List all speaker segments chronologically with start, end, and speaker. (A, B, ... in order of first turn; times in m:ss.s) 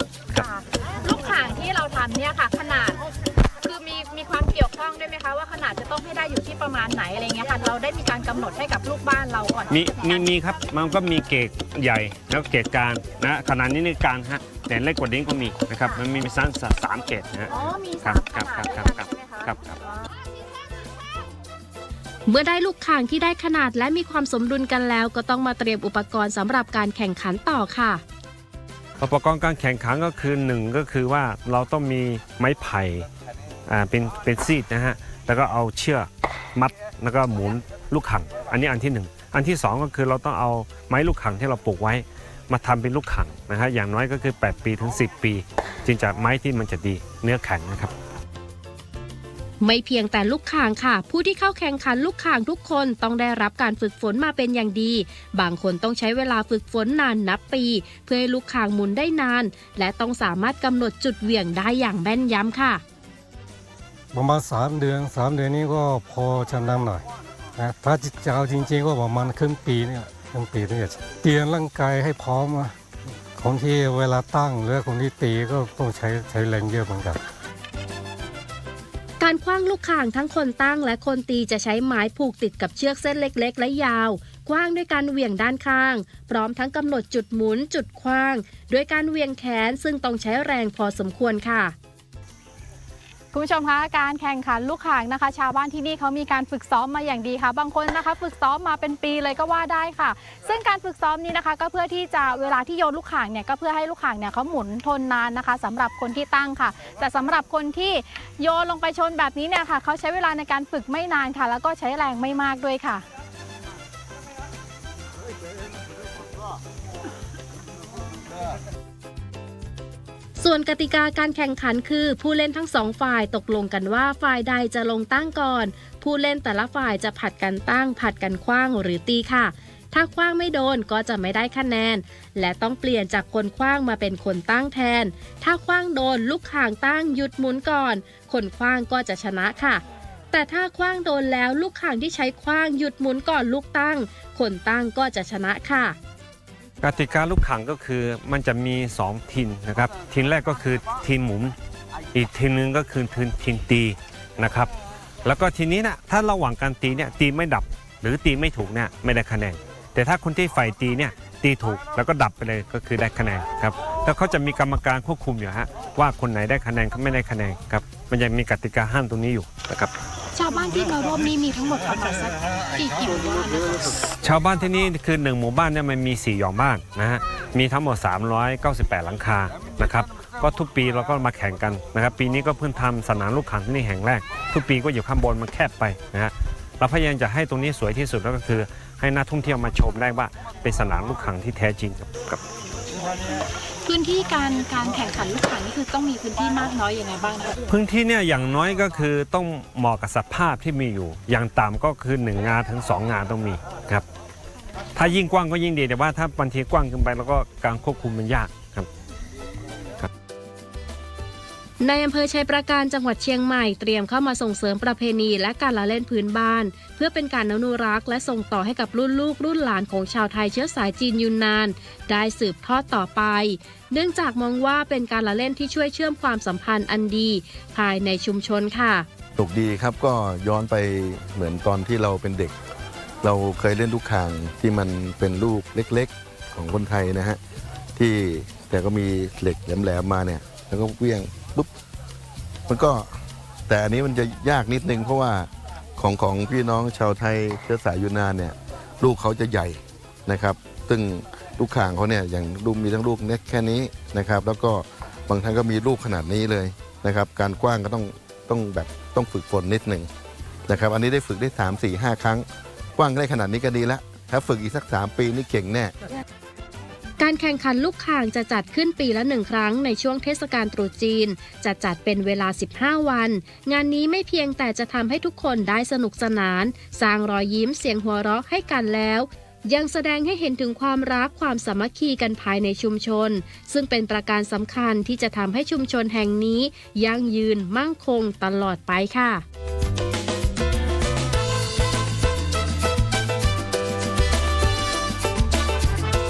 0:00.3-0:10.3 A
0:09.7-0:19.8 B
0:17.5-0:19.5 A
0:22.2-0:28.0 C
0:29.0-0:33.1 B
0:33.7-0:47.9 B
0:49.6-1:02.8 C
1:04.1-1:12.8 D
1:13.3-1:17.2 D
1:19.2-1:31.7 C
1:33.3-1:53.0 A
2:00.4-2:26.0 C
2:26.8-2:31.5 B
2:32.1-2:34.7 B
2:35.2-2:49.9 B
2:50.3-2:54.0 A
2:54.2-3:12.4 B
3:13.8-3:17.6 A
3:17.7-3:24.0 B
3:25.0-3:28.9 B
3:31.8-3:49.1 C
3:49.4-3:52.5 E
3:53.2-3:57.4 E
3:57.9-4:01.7 E
4:02.7-4:03.1 E
4:03.7-4:20.1 E
4:20.7-4:22.4 E
4:23.0-4:25.9 E
4:27.2-4:49.4 C